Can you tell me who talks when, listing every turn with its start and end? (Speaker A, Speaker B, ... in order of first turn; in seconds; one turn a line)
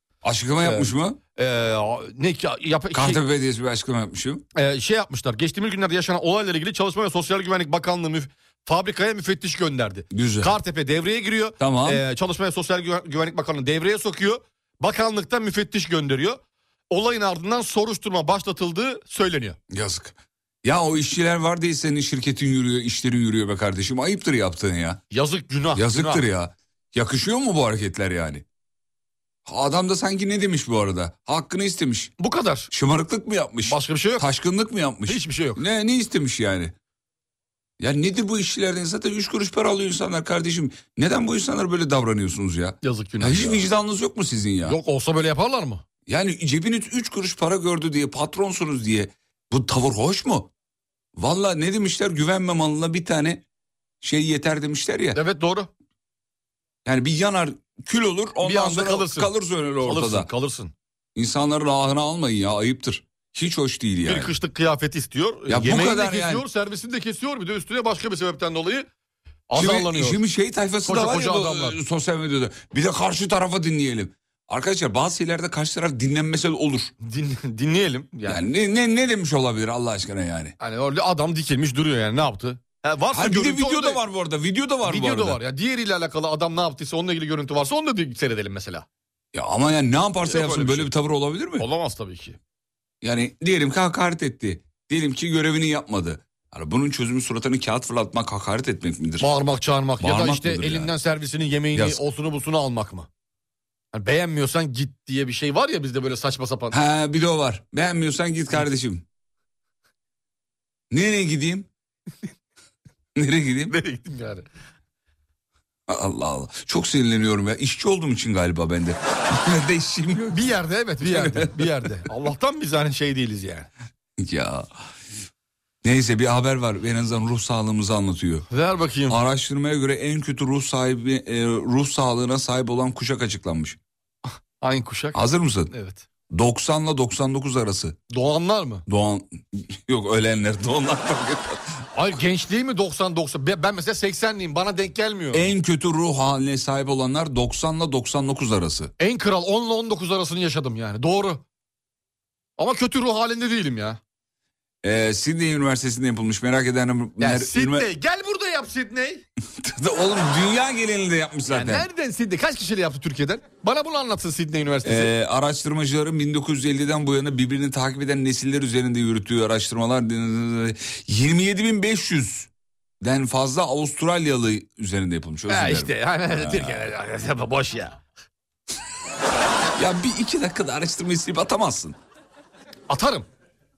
Speaker A: 0.2-1.2
Speaker B: 0.6-3.2
Speaker A: 2.9-4.5
Speaker B: 4.5-19.6
Speaker A: 10.1-10.6
Speaker A: 11.6-12.0
Speaker A: 19.7-25.0
Speaker B: 25.1-26.2
Speaker A: 25.7-28.4
Speaker A: 29.5-32.1
Speaker B: 32.2-32.7
Speaker A: 32.7-36.8
Speaker B: 33.6-34.3
Speaker B: 35.1-35.6
Speaker A: 37.8-44.8
Speaker B: 42.8-43.7
Speaker B: 44.6-45.8
Speaker A: 46.1-50.5
Speaker A: 51.2-53.4
Speaker A: 54.0-55.2
Speaker B: 55.1-55.7
Speaker A: 56.9-60.3
Speaker B: 58.4-60.7
Speaker A: 61.1-64.3
Speaker B: 64.0-68.9
Speaker A: 65.5-66.5
Speaker B: 69.5-70.2
Speaker A: 69.5-76.9
Speaker B: 70.8-71.8
Speaker B: 77.0-78.4
Speaker A: 78.3-80.5
Speaker B: 80.6-84.0
Speaker A: 83.1-85.4
Speaker B: 84.8-88.9
Speaker A: 89.3-91.7
Speaker B: 90.2-90.9
Speaker B: 91.6-92.4
Speaker A: 93.0-99.3
Speaker B: 99.2-103.1
Speaker A: 100.0-100.9
Speaker A: 101.7-102.0
Speaker B: 103.9-106.8
Speaker A: 106.7-109.0
Speaker A: 110.9-111.7
Speaker A: 113.2-113.8
Speaker B: 113.7-114.5
Speaker A: 115.9-121.8
Speaker B: 120.3-123.7
Speaker A: 124.2-124.7
Speaker A: 125.8-128.5
Speaker B: 128.5-129.2
Speaker A: 129.1-133.8
Speaker B: 134.6-136.1
Speaker A: 135.1-135.7
Speaker A: 136.3-138.0
Speaker B: 138.1-138.9
Speaker A: 138.9-141.6
Speaker B: 141.9-145.5
Speaker A: 145.3-148.9
Speaker B: 149.0-151.4
Speaker B: 152.6-154.0
Speaker A: 154.8-157.9
Speaker B: 157.2-159.2
Speaker A: 159.6-161.9
Speaker B: 161.5-165.1
Speaker A: 164.8-172.5
Speaker A: 173.0-176.9
Speaker B: 175.5-178.0
Speaker A: 179.8-182.0
Speaker B: 182.9-183.3